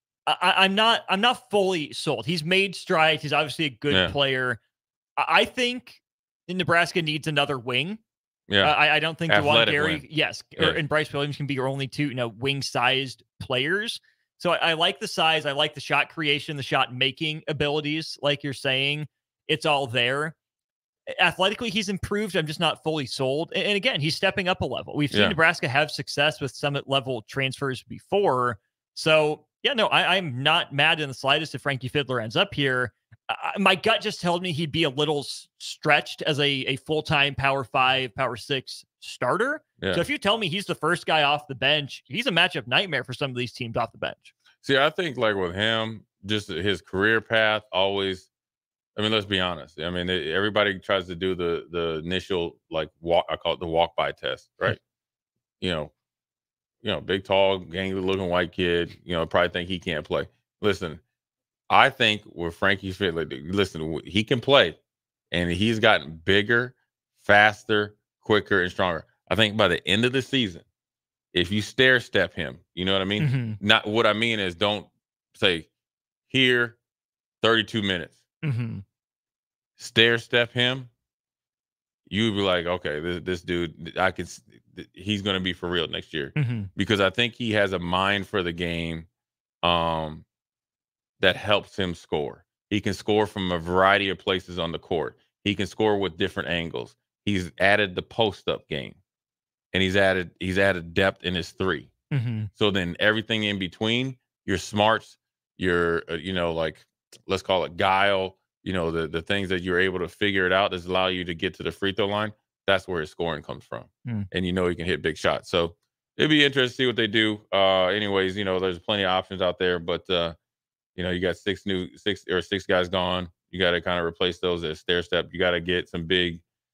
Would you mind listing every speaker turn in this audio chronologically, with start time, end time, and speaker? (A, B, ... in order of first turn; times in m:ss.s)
0:00.3-0:04.6 A
0:05.2-0:08.0 A
0:08.5-0:08.7 B
0:08.6-0:20.4 A
0:09.3-0:10.0 B
0:21.2-0:44.3 A
0:25.1-0:25.4 B
0:39.8-0:40.0 B
0:44.6-0:48.3 B
0:49.0-0:54.8 B
0:55.6-0:55.9 B
0:56.8-1:01.0 B
1:01.7-1:04.8 B
1:05.3-1:10.6 B
1:11.3-1:15.7 B
1:13.2-1:13.6 A
1:16.3-1:16.8 B
1:17.4-1:18.2 B
1:18.4-1:18.8 A
1:19.8-1:20.9 B
1:22.1-1:29.1 B
1:26.4-1:26.7 A
1:29.6-1:30.2 B
1:31.2-1:39.0 B
1:39.7-1:41.9 B
1:42.1-1:42.5 A
1:42.6-2:00.4 B
2:01.0-2:06.4 B